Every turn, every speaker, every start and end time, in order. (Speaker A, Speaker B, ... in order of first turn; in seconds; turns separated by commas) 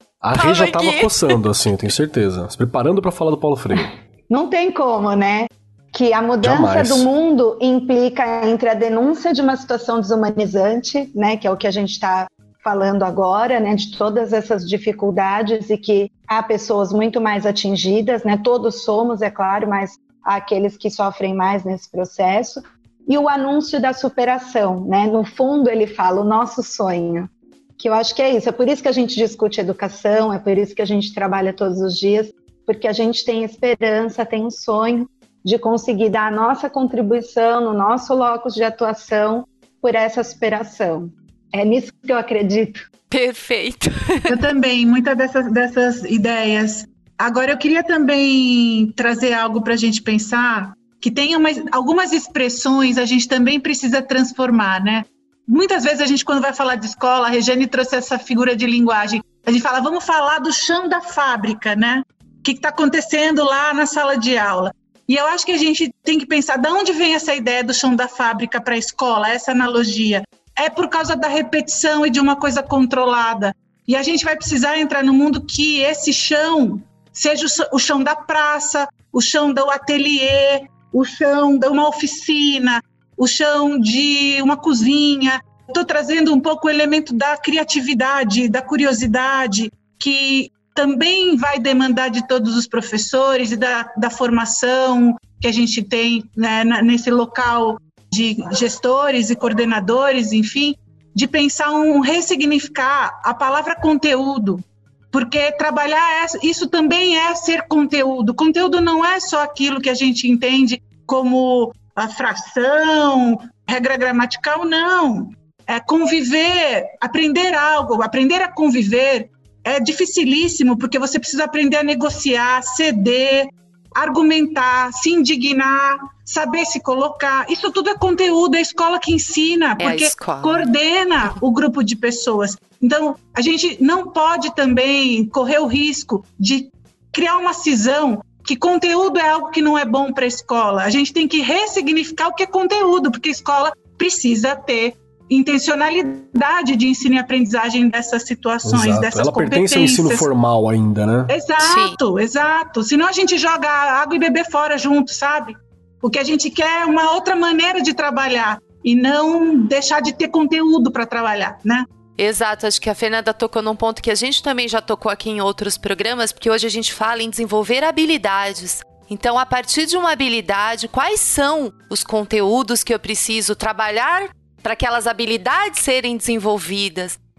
Speaker A: 0.2-3.9, Speaker B: 0.3-1.4, Speaker C: 4.3-42.9, Speaker A: 6.4-7.1, Speaker B: 43.1-44.4, Speaker D: 44.3-150.3, Speaker B: 129.8-130.7, Speaker A: 148.7-151.3, Speaker D: 151.3-161.9, Speaker B: 151.6-152.0, Speaker B: 162.2-177.2